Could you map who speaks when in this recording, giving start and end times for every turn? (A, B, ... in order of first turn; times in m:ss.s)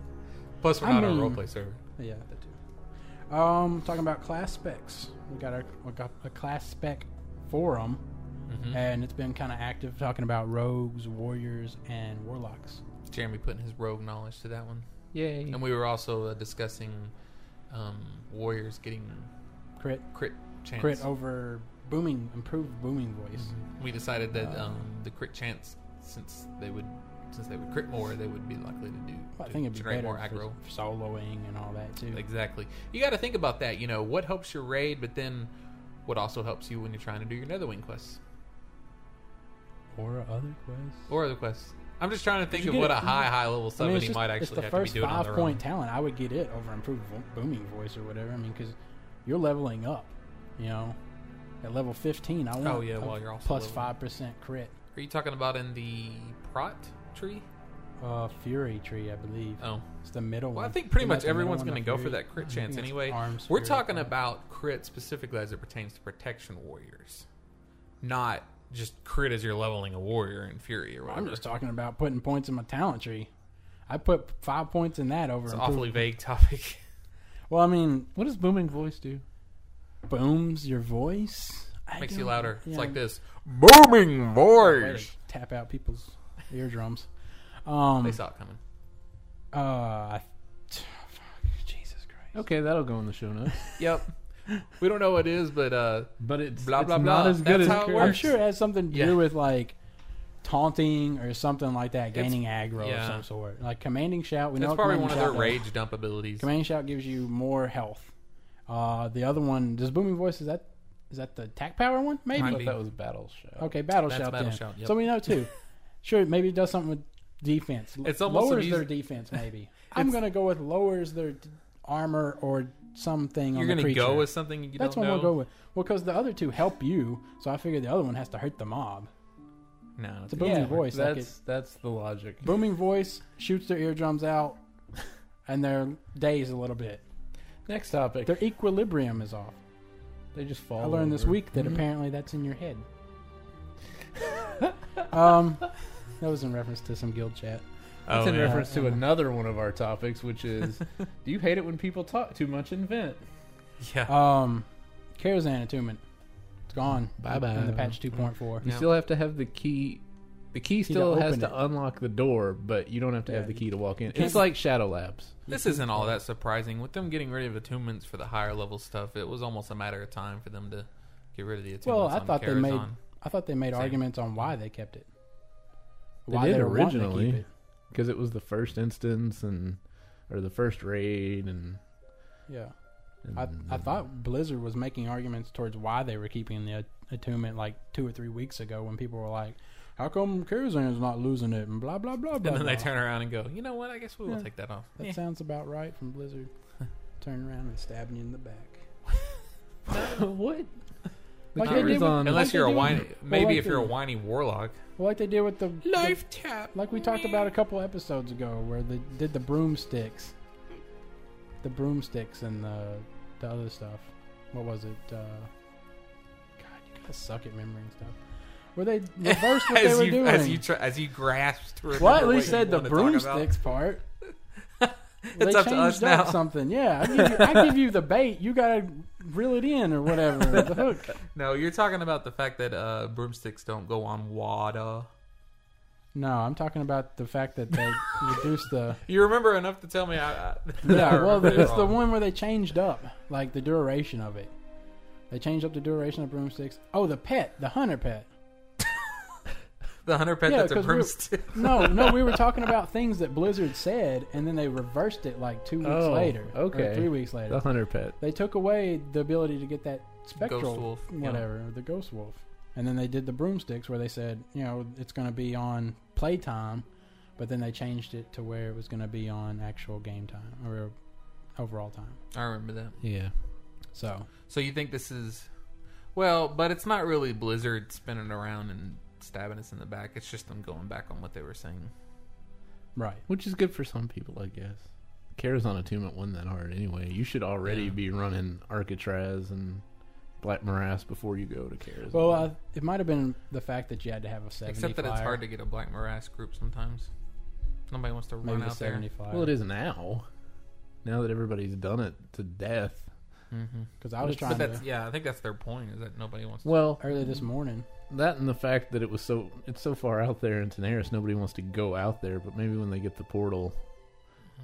0:00.6-0:01.8 A
0:00.8-0:02.6 B
0:03.3-0:08.0 B
0:08.5-0:08.8 A
0:08.7-0:12.8 B
0:13.1-0:14.9 A
0:15.1-0:15.6 C
0:15.5-0:17.1 A
0:17.7-0:19.3 A
0:19.8-0:20.2 B
0:20.1-0:21.1 A
0:20.8-0:23.5 B
0:23.4-0:30.6 A
0:24.3-0:24.7 B
0:29.4-0:32.2 B
0:32.1-0:35.5 A
0:36.1-0:38.2 A
0:39.9-0:41.0 B
0:41.1-0:45.6 A
0:42.5-0:51.0 B
0:51.6-0:54.7 B
0:52.6-0:53.9 A
0:55.0-0:57.5 A
0:58.0-1:04.1 B
0:59.6-0:59.8 A
1:00.5-1:07.3 A
1:08.0-1:11.4 A
1:11.0-1:13.3 B
1:13.9-1:16.0 B
1:15.5-1:16.8 A
1:17.5-1:18.1 B
1:18.1-1:19.2 C
1:20.1-1:23.0 B
1:22.0-1:25.1 A
1:24.6-1:27.1 B
1:27.6-1:28.2 B
1:28.0-1:28.6 A
1:29.5-1:32.4 B
1:32.4-1:33.6 C
1:33.8-1:34.1 A
1:34.6-1:38.3 A
1:36.2-1:38.3 C
1:37.6-1:39.8 B
1:38.9-1:39.2 A
1:40.4-1:45.6 B
1:42.1-1:43.2 A
1:44.6-1:46.5 A
1:46.4-1:48.1 B
1:48.7-1:52.7 B
1:52.3-1:53.7 C
1:52.4-1:52.8 A
1:53.6-1:55.5 B
1:54.1-1:55.1 A
1:56.0-2:09.1 B
1:58.0-1:59.0 A
2:03.5-2:05.3 A
2:10.0-2:10.7 A
2:10.3-2:11.3 B
2:10.4-2:12.6 C
2:12.4-2:14.6 B
2:15.5-2:17.0 B
2:17.7-2:18.4 C
2:18.3-2:19.6 B
2:20.3-2:21.8 C
2:20.8-2:22.8 B
2:25.1-2:27.6 B
2:28.1-2:28.6 A
2:28.1-2:33.2 C
2:28.3-2:29.0 B
2:33.8-2:34.1 A
2:34.1-2:34.7 B
2:35.2-2:36.0 B
2:36.7-2:38.6 B
2:37.2-2:38.0 C
2:38.6-2:45.4 C
2:38.6-2:38.9 A
2:40.9-2:41.6 B
2:43.3-2:44.5 B
2:45.5-2:46.2 B
2:45.5-2:53.0 A
2:51.8-2:55.1 B
2:53.7-2:54.0 A
2:56.3-2:57.5 B
2:56.3-3:01.8 C
3:02.5-3:02.7 B
3:03.2-3:03.9 C
3:03.3-3:12.9 B
3:12.4-3:15.2 A
3:15.0-3:16.5 B
3:17.2-3:18.9 B
3:19.9-3:20.7 C
3:19.9-3:20.2 A
3:21.5-3:23.0 C
3:21.6-3:24.0 B
3:21.6-3:24.8 A
3:25.0-3:30.3 B
3:25.8-3:27.5 A
3:31.6-3:35.5 B
3:36.6-3:38.2 B
3:38.8-3:40.6 B
3:39.2-3:43.5 A
3:42.0-3:44.0 B
3:44.8-3:46.4 A
3:45.4-3:51.1 B
3:51.3-3:55.1 A
3:56.1-3:59.0 B
3:59.1-4:02.0 A
4:00.8-4:04.5 B
4:00.9-4:01.4 C
4:05.3-4:08.3 B
4:10.0-4:12.4 A
4:10.4-4:26.9 B
4:15.8-4:18.1 C
4:20.4-4:21.4 A
4:27.4-4:30.9 B
4:31.6-4:32.2 B
4:32.3-4:33.0 A
4:33.0-4:33.3 C
4:33.9-4:34.3 B
4:34.5-4:35.5 A
4:36.1-4:41.9 A
4:43.0-4:43.2 B
4:43.3-4:49.8 C
4:47.6-4:48.0 A
4:50.4-4:52.5 C
4:52.1-4:55.4 B
4:54.7-4:57.1 A
4:57.9-4:59.0 A
4:58.4-4:59.5 B
4:59.3-5:00.3 C
5:01.0-5:03.1 C
5:03.5-5:03.9 A
5:04.0-5:04.8 B
5:04.2-5:04.8 C
5:04.4-5:06.7 A
5:06.6-5:07.0 C
5:07.0-5:07.9 B
5:08.1-5:13.8 C